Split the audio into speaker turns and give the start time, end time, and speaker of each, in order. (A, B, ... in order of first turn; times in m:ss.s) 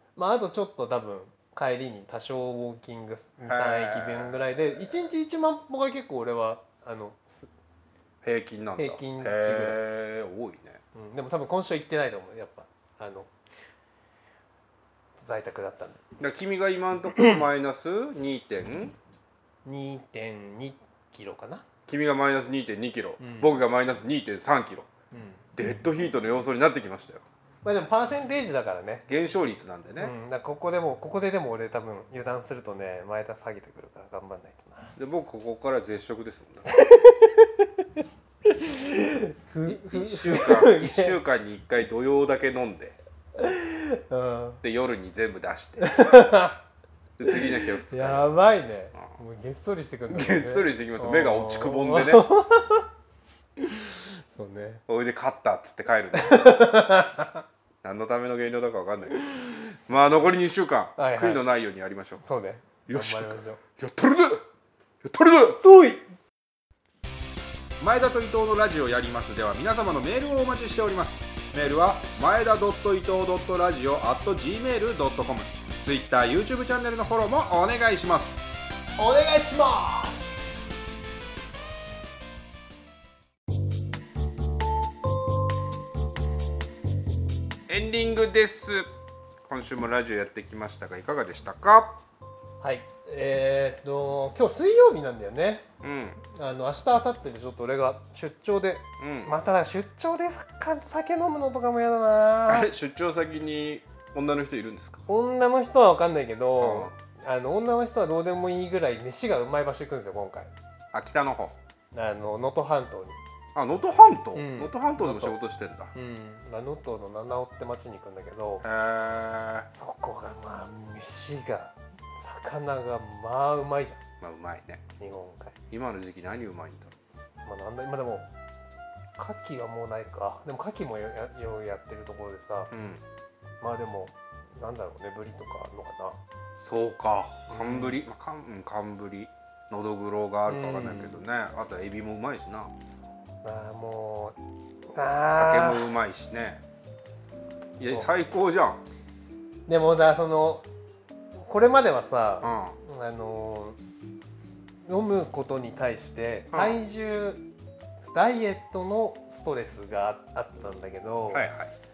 0:00.2-0:07.5 A
0:03.5-0:04.4 B
0:08.2-0:10.8 B
0:08.8-0:09.8 A
0:11.0-0:13.3 A
0:15.2-0:16.0 A
0:16.2-0:19.0 B
0:19.6-0:21.7 A
0:21.9-0:24.9 B
0:23.2-0:23.5 A
0:25.1-0:25.4 A
0:25.6-0:27.2 B
0:27.6-0:29.1 A
0:29.1-0:30.1 B
0:30.0-0:35.0 A
0:35.0-0:36.7 B
0:36.7-0:41.2 A
0:39.6-0:43.0 B
0:43.4-0:44.6 A
0:44.6-0:46.2 B
0:45.8-0:46.6 A
0:47.2-0:48.3 B
0:47.3-0:52.9 A
0:50.1-0:52.3 B
0:53.6-0:54.8 A
0:54.9-0:56.7 B
0:56.2-0:57.4 A
0:57.8-0:59.3 B
0:59.3-0:59.7 A
0:59.9-1:02.2 B
1:01.0-1:01.4 A
1:02.2-1:03.6 A
1:02.9-1:04.4 B
1:05.0-1:05.6 B
1:05.6-1:06.0 A
1:07.8-1:18.5 B
1:19.0-1:20.6 A
1:27.7-1:28.9 B
1:29.5-1:32.0 B
1:32.6-1:35.7 A
1:35.8-1:36.2 B
1:36.2-1:42.7 A
1:39.0-1:39.4 B
1:42.5-1:45.0 B
1:45.1-1:50.5 A
1:46.6-1:47.0 B
1:50.9-1:51.6 B
1:51.9-1:53.2 A
1:53.6-1:55.9 B
1:54.4-1:55.4 A
1:55.9-1:58.6 A
1:58.6-1:59.7 B
1:59.7-2:04.0 A
2:04.2-2:04.8 B
2:05.0-2:05.6 A
2:05.7-2:07.0 B
2:07.4-2:08.3 A
2:09.2-2:12.7 A
2:12.7-2:13.0 B
2:13.6-2:16.2 A
2:16.6-2:22.7 B
2:17.5-2:18.0 A
2:20.5-2:21.2 A
2:23.4-2:24.4 A
2:24.9-2:25.9 A
2:25.3-2:26.6 B
2:27.8-2:28.1 A
2:27.8-2:28.8 B
2:29.7-2:30.6 A
2:31.4-2:33.8 A
2:32.4-2:32.8 B
2:34.8-2:37.5 A
2:36.5-2:36.8 B
2:38.0-2:41.5 A
2:41.3-2:41.7 B